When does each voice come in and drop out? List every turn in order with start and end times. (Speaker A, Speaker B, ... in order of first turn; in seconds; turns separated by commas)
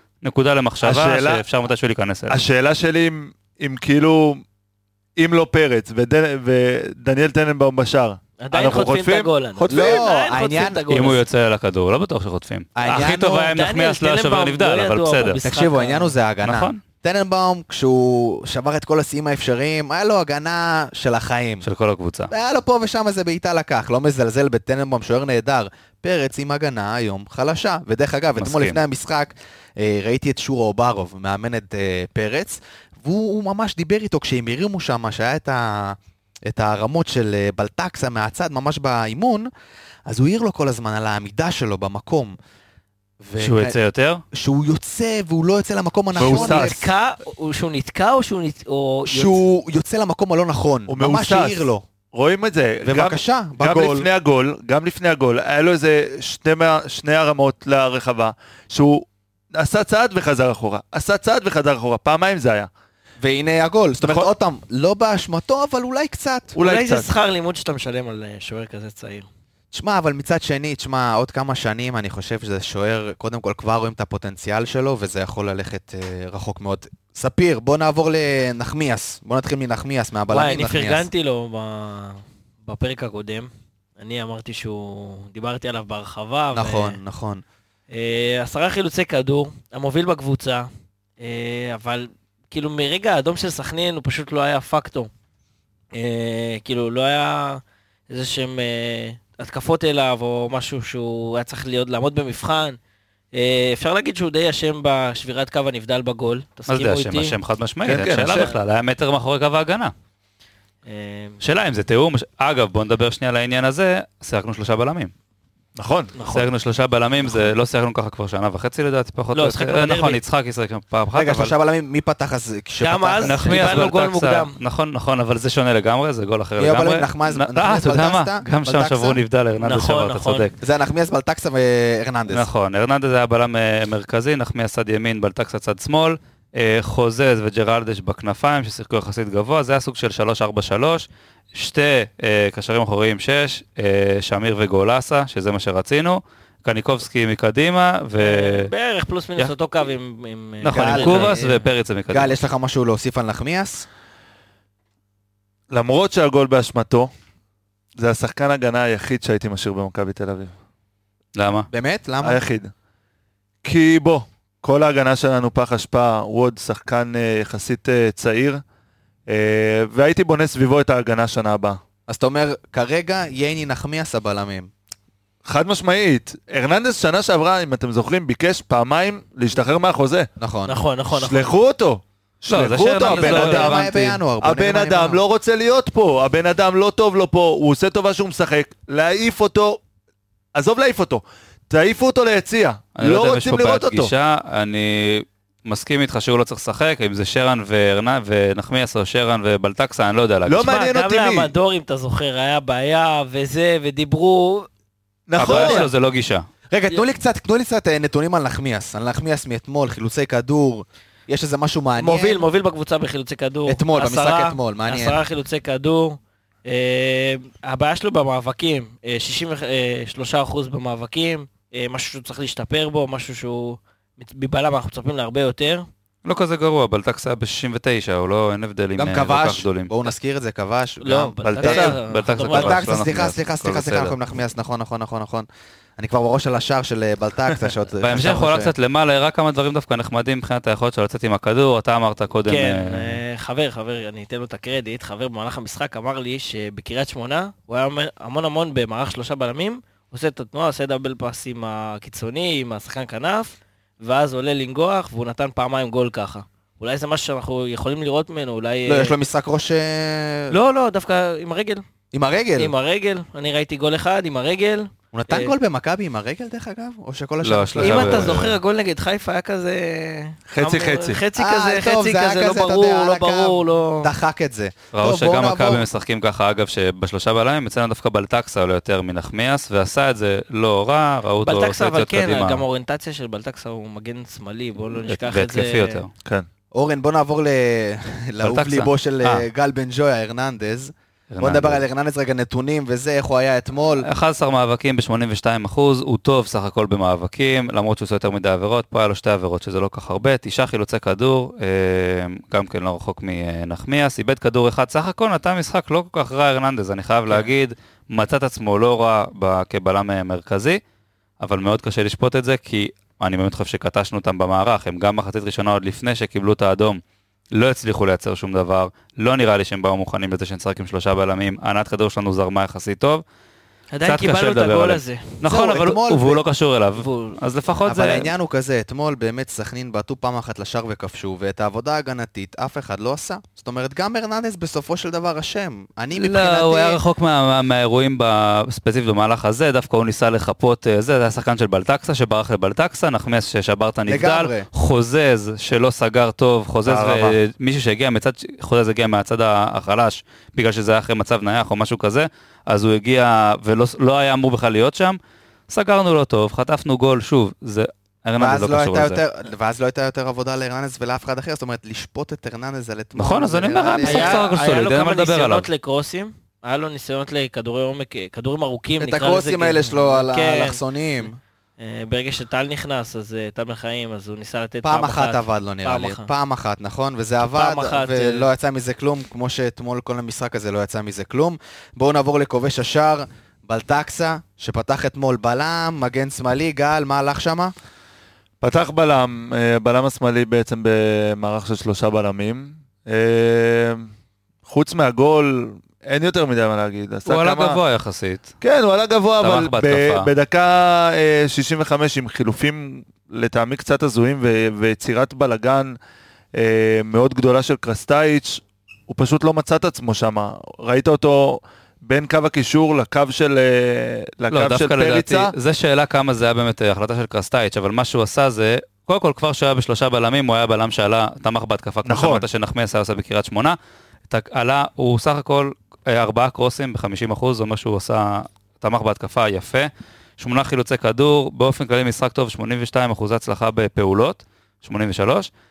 Speaker A: 0.2-2.4, Speaker B: 0.8-1.4, Speaker B: 2.3-4.4, Speaker B: 5.2-10.1, Speaker C: 8.4-11.2, Speaker D: 9.7-10.8, Speaker A: 10.9-15.4, Speaker D: 12.8-13.5, Speaker C: 13.5-16.1, Speaker D: 15.4-21.6, Speaker A: 16.4-16.8, Speaker A: 21.6-22.3, Speaker D: 22.3-39.5, Speaker A: 28.4-28.8, Speaker D: 40.0-42.4, Speaker D: 43.2-43.8, Speaker A: 43.4-44.2, Speaker D: 44.3-46.8, Speaker B: 46.2-46.7, Speaker C: 46.2-49.4, Speaker D: 49.1-51.8, Speaker B: 50.9-62.7, Speaker D: 52.8-54.1, Speaker D: 63.2-66.5, Speaker B: 64.0-64.3, Speaker C: 66.5-69.3, Speaker B: 66.6-67.1, Speaker D: 69.7-81.1, Speaker C: 80.3-87.0, Speaker D: 86.5-87.4, Speaker C: 87.9-90.7, Speaker C: 91.2-95.1, Speaker C: 95.9-102.8, Speaker C: 103.3-107.4, Speaker A: 106.7-109.9, Speaker B: 107.8-108.5, Speaker C: 108.2-108.5, Speaker C: 110.9-111.4, Speaker A: 111.4-115.1, Speaker B: 115.8-116.2, Speaker C: 116.2-116.5, Speaker A: 116.3-121.5, Speaker C: 119.3-120.2, Speaker D: 121.1-123.8, Speaker C: 122.8-124.5, Speaker A: 123.2-130.5, Speaker D: 126.6-129.2, Speaker C: 129.6-130.5, Speaker D: 130.6-132.5, Speaker A: 132.3-148.7, Speaker C: 148.2-151.7, Speaker A: 150.6-152.3, Speaker D: 150.7-151.3, Speaker D: 152.1-153.8, Speaker B: 155.7-157.1, Speaker B: 158.0-160.5, Speaker A: 161.3-161.7, Speaker D: 161.7-162.4, Speaker B: 162.2-162.7, Speaker B: 163.6-168.6, Speaker B: 169.3-171.8, Speaker D: 172.1-174.7, Speaker B: 175.4-180.3, Speaker D: 180.4-180.8, Speaker C: 180.7-181.5, Speaker B: 181.1-189.8, Speaker A: 182.5-184.1, Speaker D: 183.0-185.2, Speaker B: 190.5-194.1, Speaker A: 193.0-200.7, Speaker B: 200.5-201.5, Speaker C: 200.5-204.7, Speaker B: 205.3-205.9, Speaker A: 205.4-206.4, Speaker D: 206.7-212.5, Speaker C: 212.0-225.9, Speaker D: 213.7-215.2, Speaker A: 226.2-229.9, Speaker D: 229.0-238.7, Speaker C: 231.0-232.9, Speaker B: 231.4-232.0, Speaker A: 231.6-234.2, Speaker A: 238.0-243.2, Speaker C: 242.5-259.1, Speaker D: 258.9-260.5, Speaker C: 260.5-261.8, Speaker D: 262.1-262.7, Speaker C: 262.6-265.5, Speaker D: 265.1-268.4, Speaker A: 267.4-268.6, Speaker C: 267.8-274.1, Speaker B: 270.5-271.2, Speaker D: 271.4-275.8, Speaker A: 274.9-282.6, Speaker C: 281.4-286.0, Speaker A: 284.9-286.1, Speaker D: 286.7-294.1, Speaker A: 288.4-289.4, Speaker A: 291.3-291.8, Speaker A: 294.0-310.8, Speaker A: 311.4-317.0, Speaker A: 317.5-323.2, Speaker C: 323.9-325.3, Speaker A: 324.0-328.3, Speaker D: 325.4-326.4, Speaker C: 326.9-327.4, Speaker D: 327.8-337.0, Speaker A: 336.1-355.2, Speaker D: 344.1-344.7, Speaker B: 346.9-347.4, Speaker A: 355.7-359.2, Speaker D: 358.4-364.4, Speaker A: 363.1-365.7, Speaker C: 364.0-370.8, Speaker D: 369.0-371.4, Speaker C: 371.8-376.3, Speaker D: 374.8-387.7, Speaker C: 377.4-378.5, Speaker B: 388.6-394.1, Speaker B: 394.6-397.8, Speaker A: 397.2-398.5, Speaker B: 398.6-405.9, Speaker A: 399.4-400.3, Speaker B: 406.5-415.5, Speaker A: 414.5-423.8, Speaker B: 422.0-422.4, Speaker A: 424.3-435.5